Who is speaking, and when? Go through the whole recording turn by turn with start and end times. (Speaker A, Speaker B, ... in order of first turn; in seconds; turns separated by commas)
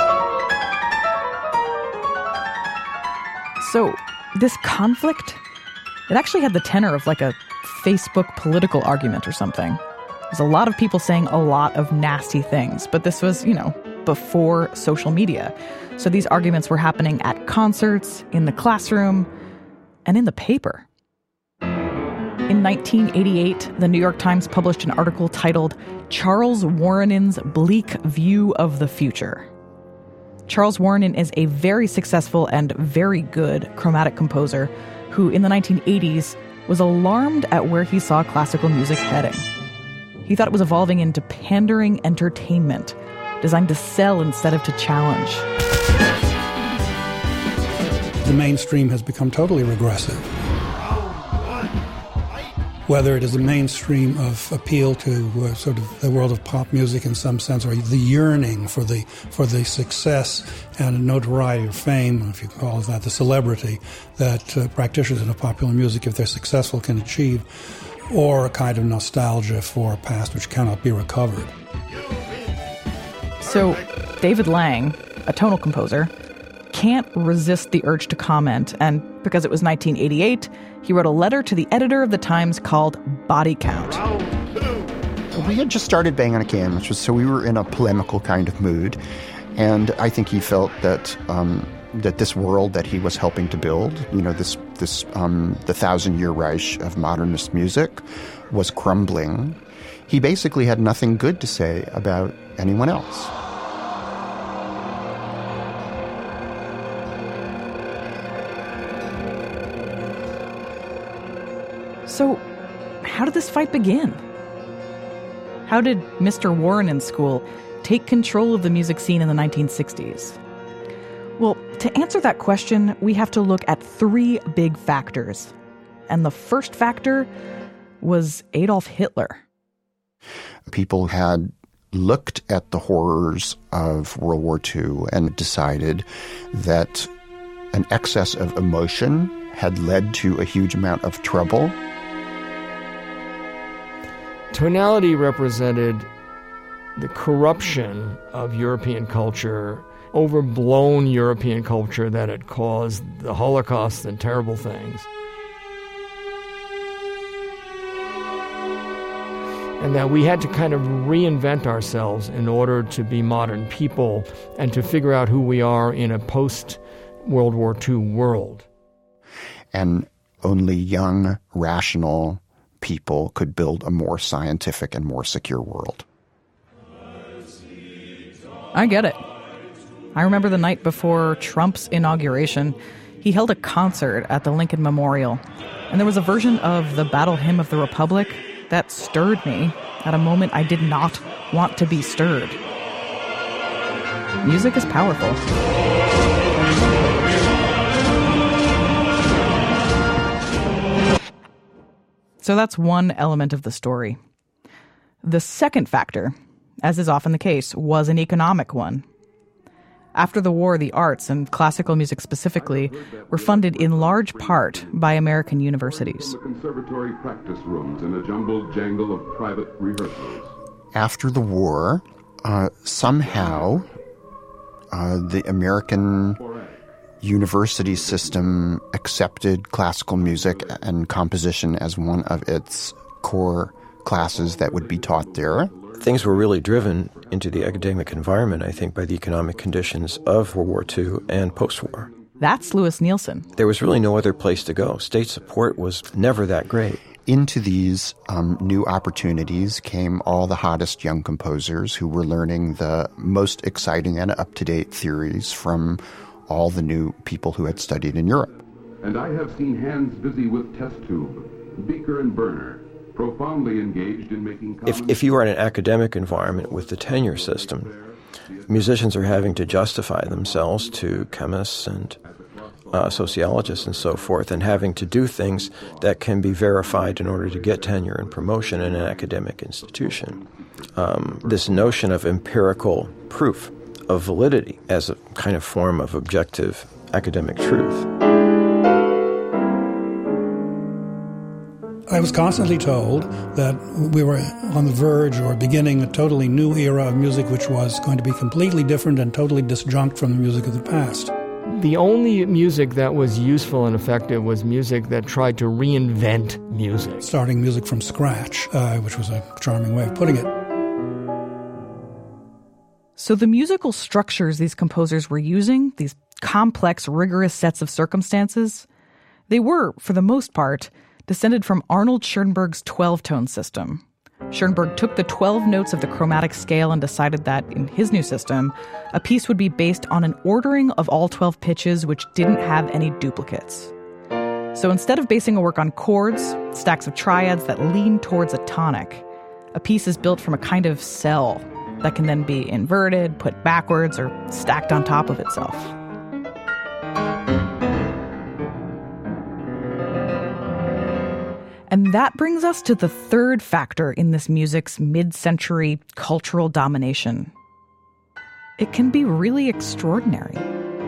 Speaker A: 3.6-5.4, Speaker A: 6.1-19.3, Speaker A: 20.1-20.9, Speaker A: 22.5-29.5, Speaker A: 30.5-39.5, Speaker A: 40.3-45.5, Speaker B: 48.2-50.3, Speaker B: 52.9-67.5, Speaker B: 68.1-71.5, Speaker A: 73.4-76.1, Speaker A: 76.7-84.1, Speaker C: 85.3-89.0, Speaker C: 89.6-103.3, Speaker A: 112.1-112.4, Speaker A: 113.0-114.2, Speaker A: 115.7-120.4, Speaker A: 121.4-125.5, Speaker A: 126.1-127.3, Speaker A: 128.0-129.4, Speaker C: 130.7-137.1, Speaker C: 137.7-141.8, Speaker D: 144.5-146.1, Speaker D: 147.0-155.1, Speaker D: 159.8-168.7, Speaker C: 169.7-176.1, Speaker A: 178.7-179.2, Speaker A: 180.1-192.6, Speaker A: 194.4-195.4, Speaker A: 202.4-204.2, Speaker A: 205.2-209.1, Speaker A: 210.2-216.3, Speaker E: 212.5-220.5, Speaker C: 220.9-223.9, Speaker E: 223.2-223.9, Speaker C: 224.9-226.4, Speaker E: 226.4-226.8, Speaker C: 227.2-235.7, Speaker E: 227.8-228.7, Speaker E: 230.2-230.8, Speaker E: 234.2-246.8, Speaker F: 236.0-242.1, Speaker A: 242.4-243.5, Speaker F: 243.6-247.0, Speaker C: 247.3-258.5, Speaker E: 259.0-282.1, Speaker F: 264.9-267.9, Speaker F: 268.7-272.2, Speaker F: 272.9-280.4, Speaker F: 281.0-288.1, Speaker B: 292.1-301.3, Speaker D: 301.7-307.2, Speaker B: 307.2-310.5, Speaker A: 313.2-318.9, Speaker A: 319.5-333.9, Speaker A: 334.8-345.9, Speaker A: 351.9-357.5, Speaker A: 358.8-360.7